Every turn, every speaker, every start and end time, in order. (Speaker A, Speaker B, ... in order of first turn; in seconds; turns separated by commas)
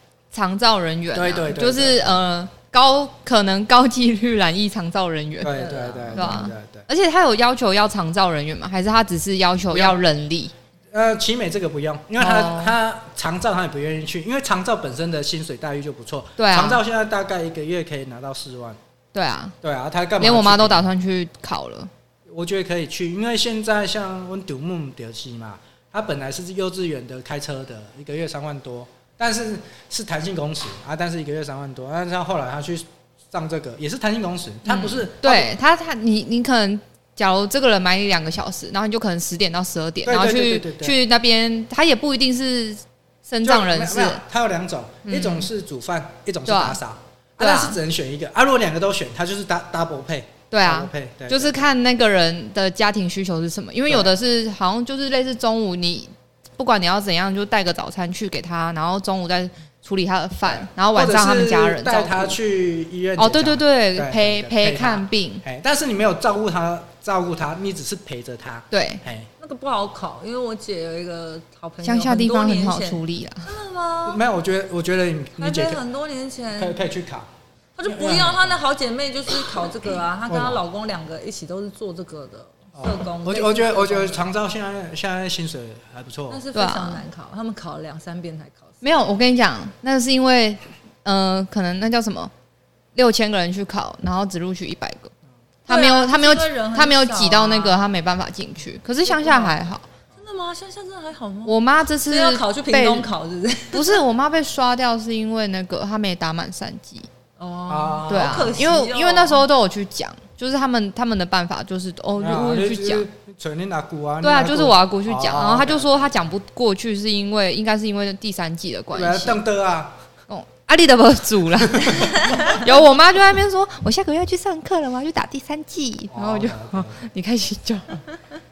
Speaker A: 0.3-5.6, Speaker B: 1.1-2.2, Speaker B: 5.4-6.9, Speaker C: 5.5-6.5, Speaker A: 6.1-10.5, Speaker B: 9.7-10.0, Speaker B: 10.9-18.8, Speaker A: 12.2-12.7, Speaker A: 16.4-16.8, Speaker A: 19.1-19.6, Speaker B: 19.6-20.9, Speaker A: 20.2-21.9, Speaker B: 22.3-35.5, Speaker A: 34.6-44.2, Speaker B: 40.0-41.0, Speaker B: 43.4-51.6, Speaker A: 45.0-45.5, Speaker A: 46.5-46.8, Speaker A: 47.4-47.8, Speaker A: 50.5-62.4, Speaker B: 53.9-54.1, Speaker B: 60.5-69.3, Speaker A: 63.2-65.4, Speaker A: 68.7-69.0, Speaker C: 69.4-74.2, Speaker A: 71.8-73.5, Speaker B: 74.1-75.8, Speaker C: 75.4-76.9, Speaker B: 76.6-77.3, Speaker C: 77.8-84.3, Speaker B: 77.9-78.5, Speaker B: 80.3-80.6, Speaker B: 82.8-86.4, Speaker C: 86.3-88.9, Speaker A: 86.5-87.0, Speaker A: 88.8-92.3, Speaker A: 93.0-95.1, Speaker A: 95.7-99.9, Speaker C: 95.7-97.8, Speaker C: 99.1-99.6, Speaker C: 100.2-104.0, Speaker A: 101.5-103.1, Speaker A: 103.7-107.1, Speaker C: 107.4-109.5, Speaker B: 107.7-108.6, Speaker A: 108.1-113.1, Speaker B: 112.2-116.1, Speaker A: 114.2-119.4, Speaker B: 118.9-120.0, Speaker A: 120.3-128.0, Speaker B: 121.7-122.5, Speaker B: 126.1-127.0